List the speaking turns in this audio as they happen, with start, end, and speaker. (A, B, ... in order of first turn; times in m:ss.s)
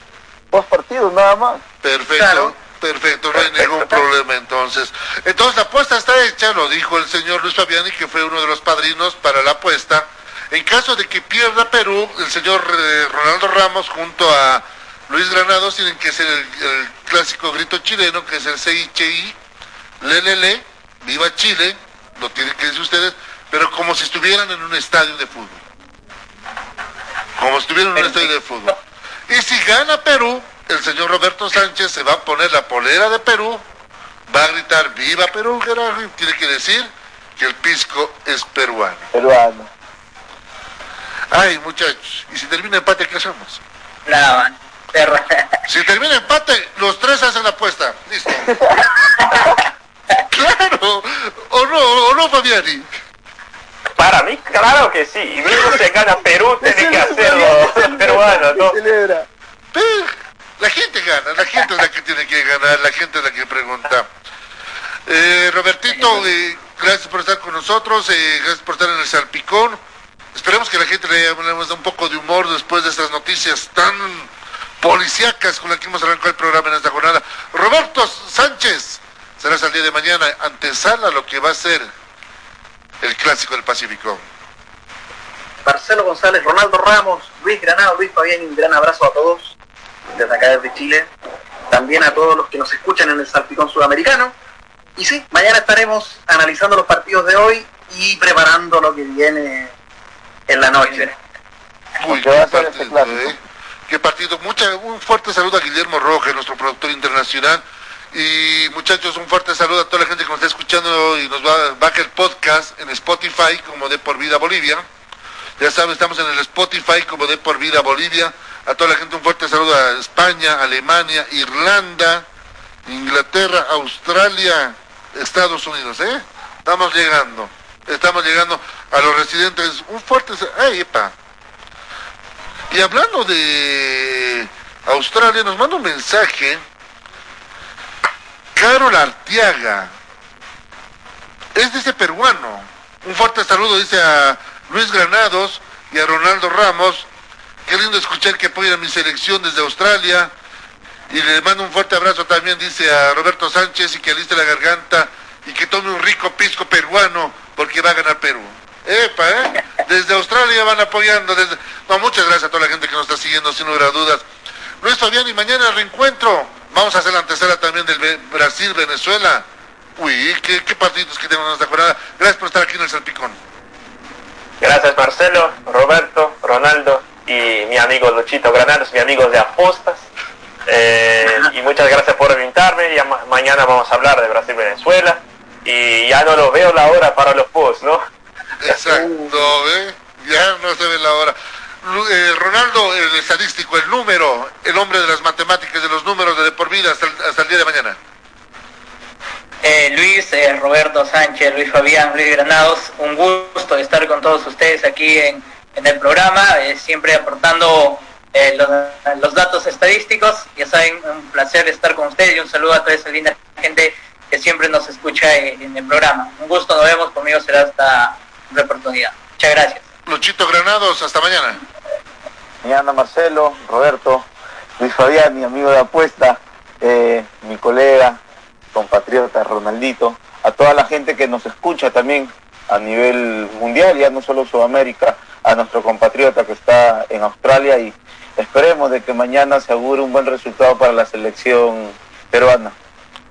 0:00.5-0:01.6 A
0:01.8-0:19.4 B
0:02.1-0:02.5 C
0:03.4-0:04.0 C
0:20.0-0:25.6 B
0:27.4-0:28.7 B
0:28.0-0:28.8 D
0:29.3-0:33.6 B
0:34.3-0:39.1 B
0:39.1-0:39.7 A
0:41.3-0:43.6 B
0:44.0-0:45.6 D
0:45.7-0:48.5 B
0:48.5-0:48.8 A
0:49.2-0:49.5 D
0:50.3-0:52.9 B
0:54.0-0:58.8 E
0:56.6-0:59.3 A
0:59.7-1:04.1 B
1:05.0-1:09.8 B
1:10.3-1:14.3 B
1:14.8-1:21.8 B
1:23.0-1:24.2 B
1:25.6-1:29.5 C
1:30.1-1:31.1 C
1:31.7-1:34.3 C
1:35.0-1:39.7 C
1:40.5-1:41.1 C
1:40.8-1:41.1 D
1:42.0-1:54.8 B
1:42.0-1:43.4 A
1:55.6-2:02.2 B
2:02.8-2:11.1 B
2:12.7-2:16.6 B
2:18.5-2:19.9 B
2:21.5-2:27.1 B
2:27.6-2:30.3 B
2:31.1-2:44.2 B
2:44.8-2:49.4 B
2:50.0-2:53.4 B
2:54.6-3:00.1 E
3:00.7-3:08.0 E
3:08.6-3:18.0 B
3:08.7-3:09.6 C
3:19.6-3:39.8 D
3:40.0-3:41.6 B
3:42.6-3:44.2 A
3:44.8-3:48.2 A
3:48.7-4:02.7 A